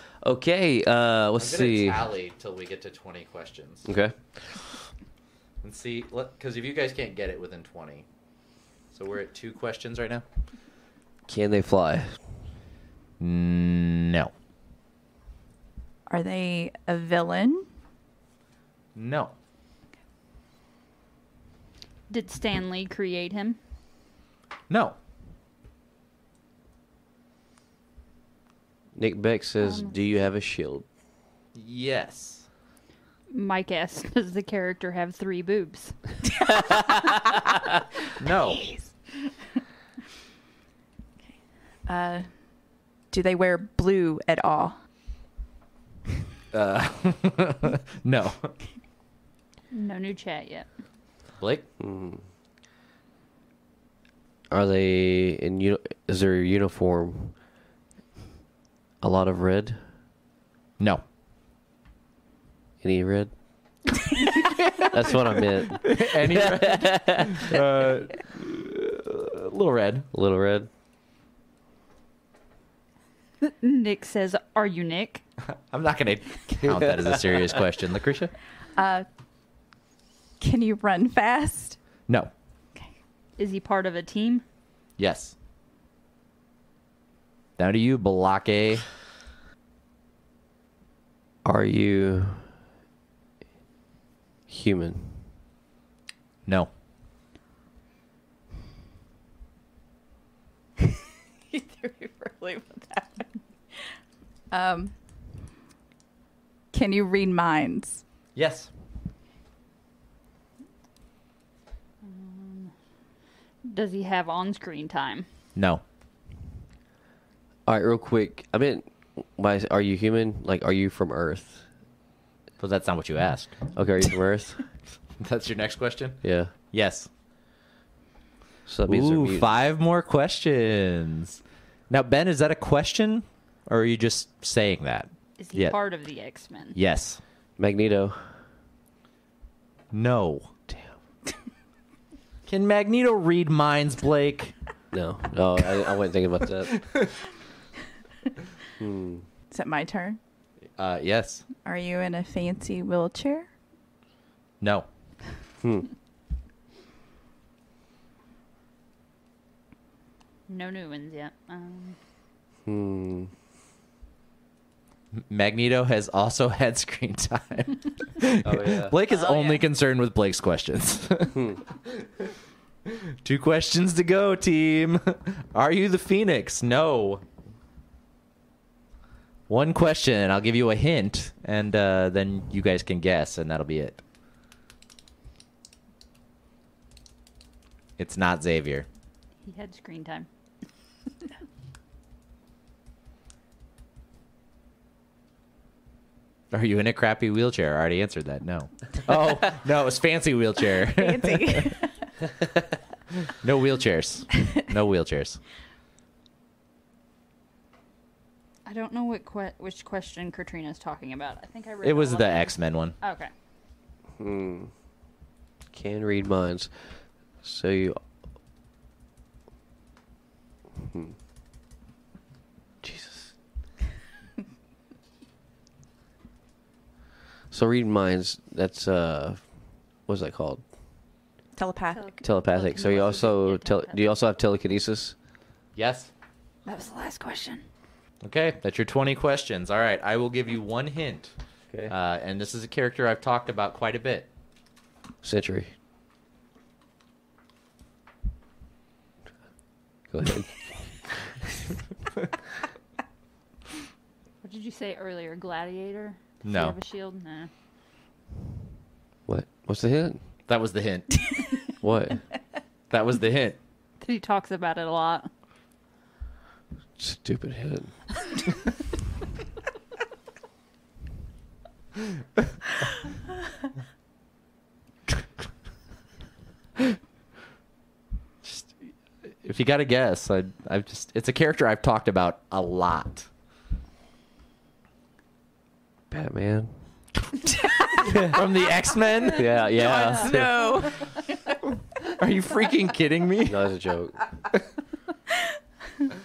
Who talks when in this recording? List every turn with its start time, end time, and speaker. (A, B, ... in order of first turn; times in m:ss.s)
0:00.2-0:02.0 A
0:01.4-0:03.9 B
0:03.8-0:04.6 A
0:05.6-0:08.0 B
0:08.9-0:10.2 B
0:11.3-0:12.2 A
0:13.2-0:14.3 B
0:16.1-0:17.6 C
0:18.9-0:19.3 B
0:22.1-0:23.6 D
0:24.7-0:25.0 B
0:29.0-0:30.8 A
0:29.6-0:29.9 D
0:31.5-0:32.4 B
0:33.3-0:36.4 D
0:38.2-0:38.6 B
0:38.6-0:38.8 C
0:41.9-0:42.3 C
0:43.1-0:44.8 C
0:46.5-0:48.5 B
0:49.7-0:50.7 D
0:51.4-0:51.6 B
0:51.8-0:52.2 A
0:54.5-0:57.3 A
0:59.0-0:59.8 A
1:02.8-1:03.3 A
1:04.3-1:04.9 B
1:04.8-1:07.5 A
1:05.7-1:10.1 B
1:10.1-1:10.7 A
1:13.4-1:15.2 D
1:15.7-1:18.3 B
1:16.7-1:17.0 A
1:18.8-1:19.0 C
1:20.4-1:21.8 C
1:23.4-1:24.4 D
1:25.0-1:25.3 B
1:27.6-1:28.8 B
1:31.4-1:32.4 A
1:34.5-1:35.2 A
1:40.8-1:43.9 C
1:44.5-1:44.9 C
1:46.7-1:48.0 C
1:48.3-1:48.7 B
1:52.0-1:52.7 D
1:53.6-1:55.2 D
1:55.6-1:55.8 B
1:57.6-2:01.6 A
2:02.6-2:03.6 B
2:03.7-2:04.6 A
2:05.2-2:06.2 B
2:06.2-2:06.5 A
2:06.7-2:07.1 B
2:08.7-2:09.5 A
2:08.9-2:15.8 B
2:15.4-2:16.8 D
2:16.7-2:17.2 B
2:17.6-2:18.2 A
2:19.9-2:20.5 B
2:20.7-2:21.0 A
2:22.5-2:24.5 B
2:24.9-2:26.8 A
2:28.8-2:29.2 A
2:29.5-2:30.2 C
2:30.8-2:31.4 B
2:31.6-2:33.5 C
2:34.6-2:34.9 B
2:35.6-2:35.9 A
2:40.5-2:42.0 D
2:42.6-2:43.3 A
2:45.1-2:52.3 B
2:48.4-2:49.0 A
2:49.1-2:49.6 D
2:52.8-2:57.2 B
2:59.5-3:04.0 B
3:08.0-3:08.8 B
3:09.4-3:10.3 D
3:16.5-3:21.7 B
3:20.9-3:21.9 C
3:23.2-3:25.4 B
3:28.6-3:33.3 D
3:31.8-3:33.0 B
3:34.2-3:34.7 A
3:35.7-3:36.7 A
3:37.4-3:38.0 A
3:40.8-3:41.1 A
3:42.8-3:43.3 A
3:47.5-3:49.4 A
3:50.1-3:50.6 A
3:51.6-3:52.1 C
3:51.9-3:54.0 D
3:52.2-3:55.1 A
3:55.8-3:56.1 B
3:56.6-3:57.6 D
3:58.2-4:01.3 B
4:01.9-4:04.3 B
4:05.2-4:05.7 A
4:10.1-4:11.3 A
4:14.4-4:17.5 D
4:16.4-4:16.8 B
4:19.3-4:20.2 A
4:20.5-4:21.2 B
4:21.8-4:22.2 A
4:22.9-4:23.6 B
4:24.0-4:25.3 D
4:27.0-4:27.9 A
4:38.4-4:38.7 B
4:39.4-4:43.3 B
4:46.1-4:46.7 A
4:47.9-4:50.5 B
4:48.0-4:48.4 A
4:49.3-4:50.4 A
4:49.7-4:51.1 C
4:52.0-4:53.6 B
4:53.4-4:54.2 A